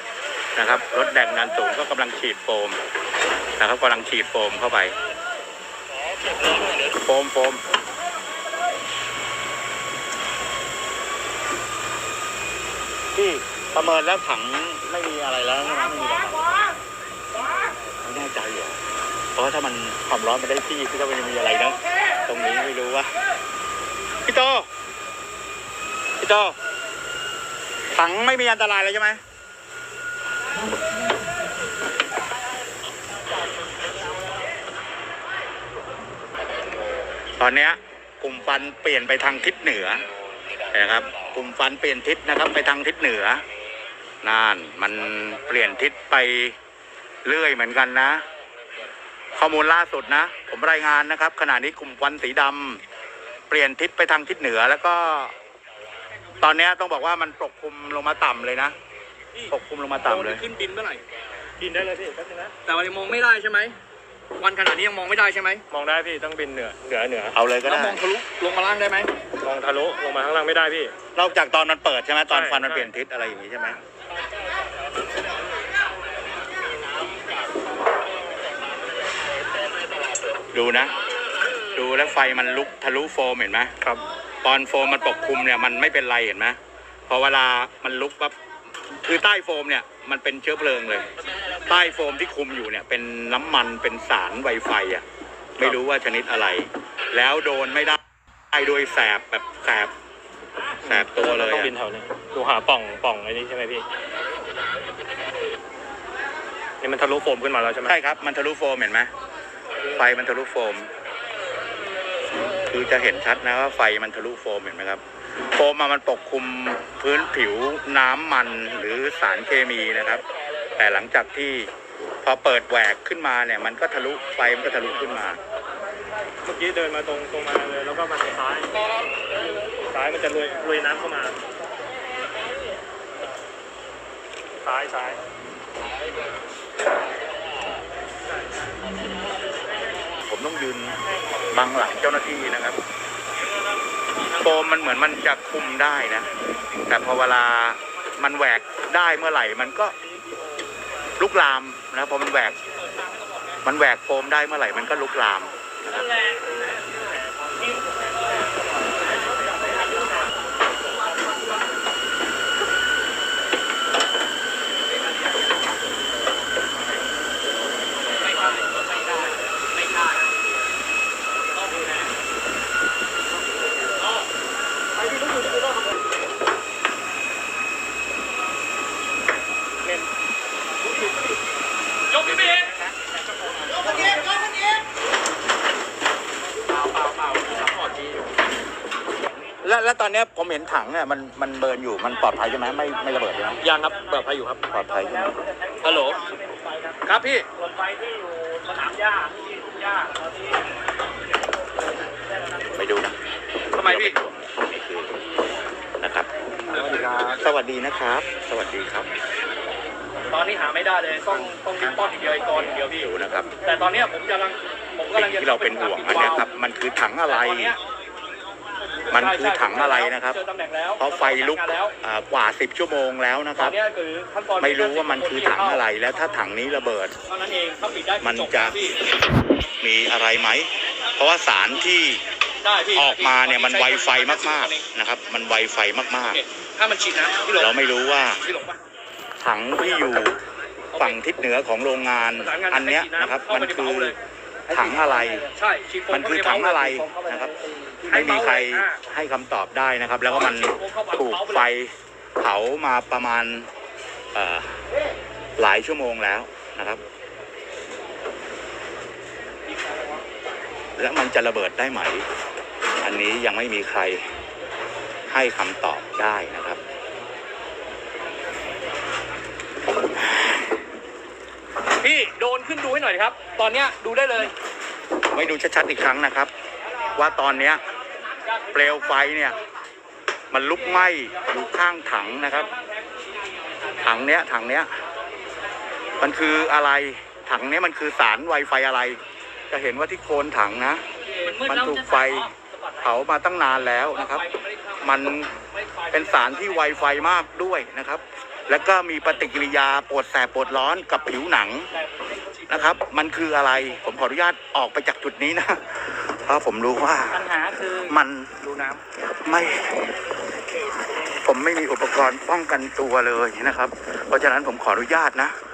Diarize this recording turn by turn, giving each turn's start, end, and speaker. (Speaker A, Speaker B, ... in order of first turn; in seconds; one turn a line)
Speaker A: 0.6-2.8
Speaker A: 3.6-4.9
Speaker A: 7.0-7.6
Speaker A: 13.1-16.5
Speaker A: 18.0-18.8
Speaker A: 19.4-23.1
Speaker A: 24.2-24.7
Speaker A: 26.2-26.6
Speaker A: 27.9-29.2
Speaker A: 37.4-40.0
Speaker A: 40.7-43.4
Speaker A: 44.2-46.5
Speaker A: 47.2-48.2
Speaker A: 49.3-52.8
Speaker A: 53.5-55.3
Speaker A: 56.4-58.7
Speaker A: 59.5-60.5
Speaker B: 60.0-61.0
Speaker C: 61.6-62.5
Speaker B: 62.6-63.8
Speaker B: 64.4-65.6
Speaker C: 65.7-67.3
Speaker A: 67.3-68.0
Speaker B: 67.6-69.1
Speaker C: 69.4-70.9
Speaker A: 71.1-73.8
Speaker C: 72.3-72.9
Speaker A: 80.5-80.9
Speaker A: 81.7-83.7
Speaker A: 84.4-88.3
Speaker A: 89.0-91.1
Speaker A: 91.7-95.0
Speaker A: 95.6-98.0
Speaker A: 98.5-99.9
Speaker C: 100.8-103.8
Speaker A: 100.8-101.8
Speaker C: 106.8-108.0
Speaker A: 107.8-109.1
Speaker A: 109.9-110.9
Speaker A: 112.7-120.2
Speaker A: 120.8-121.7
Speaker A: 122.2-125.4
Speaker C: 126.4-128.7
Speaker C: 129.9-131.3
Speaker C: 134.6-135.2
Speaker A: 140.2-142.8
Speaker A: 144.4-146.3
Speaker A: 146.9-149.9
Speaker A: 151.2-152.6
Speaker B: 152.6-153.6
Speaker A: 153.6-156.1
Speaker B: 155.9-156.7
Speaker B: 168.2-170.2
Speaker B: 171.5-172.1
Speaker B: 182.1-182.8
Speaker B: 183.9-184.3
Speaker A: 189.6-193.6
Speaker B: 193.6-194.7
Speaker A: 194.7-195.4
Speaker C: 195.0-196.3
Speaker B: 195.8-196.3
Speaker B: 197.0-197.5
Speaker C: 197.6-200.3
Speaker A: 202.7-203.2
Speaker B: 203.7-204.2
Speaker A: 203.7-205.2
Speaker A: 206.0-206.3
Speaker B: 206.7-207.4
Speaker A: 207.2-209.1
Speaker B: 210.3-216.4
Speaker A: 212.8-213.5
Speaker A: 215.1-217.8
Speaker B: 217.3-217.8
Speaker B: 219.0-222.0
Speaker A: 219.1-220.4
Speaker A: 221.0-223.8
Speaker B: 223.6-225.9
Speaker A: 224.6-227.2
Speaker B: 227.3-229.0
Speaker A: 228.2-228.8
Speaker A: 229.8-232.2
Speaker B: 232.6-234.9
Speaker A: 232.9-236.4
Speaker B: 236.3-237.8
Speaker A: 237.6-238.4
Speaker B: 238.4-238.8
Speaker A: 239.4-240.4
Speaker B: 240.9-241.2
Speaker A: 241.0-244.2
Speaker B: 242.4-244.2
Speaker A: 244.7-245.5
Speaker B: 245.5-249.0
Speaker A: 246.1-253.7
Speaker B: 250.3-251.7
Speaker A: 254.3-254.8
Speaker A: 255.6-257.0
Speaker B: 259.7-260.2
Speaker A: 261.0-262.2
Speaker A: 263.0-264.2
Speaker A: 265.3-266.8
Speaker A: 270.2-270.6
Speaker B: 272.0-274.5
Speaker A: 275.3-276.5
Speaker A: 277.1-277.8
Speaker B: 278.4-279.3
Speaker A: 278.7-279.6
Speaker A: 280.5-282.7
Speaker B: 282.7-283.9
Speaker A: 284.0-284.9
Speaker A: 286.2-292.5
Speaker B: 291.2-293.1
Speaker A: 293.0-294.4
Speaker B: 294.1-297.4
Speaker A: 295.0-295.5
Speaker A: 296.1-301.9
Speaker B: 301.9-303.0
Speaker A: 302.7-308.6
Speaker B: 307.4-309.0
Speaker A: 309.4-310.0
Speaker A: 311.4-315.6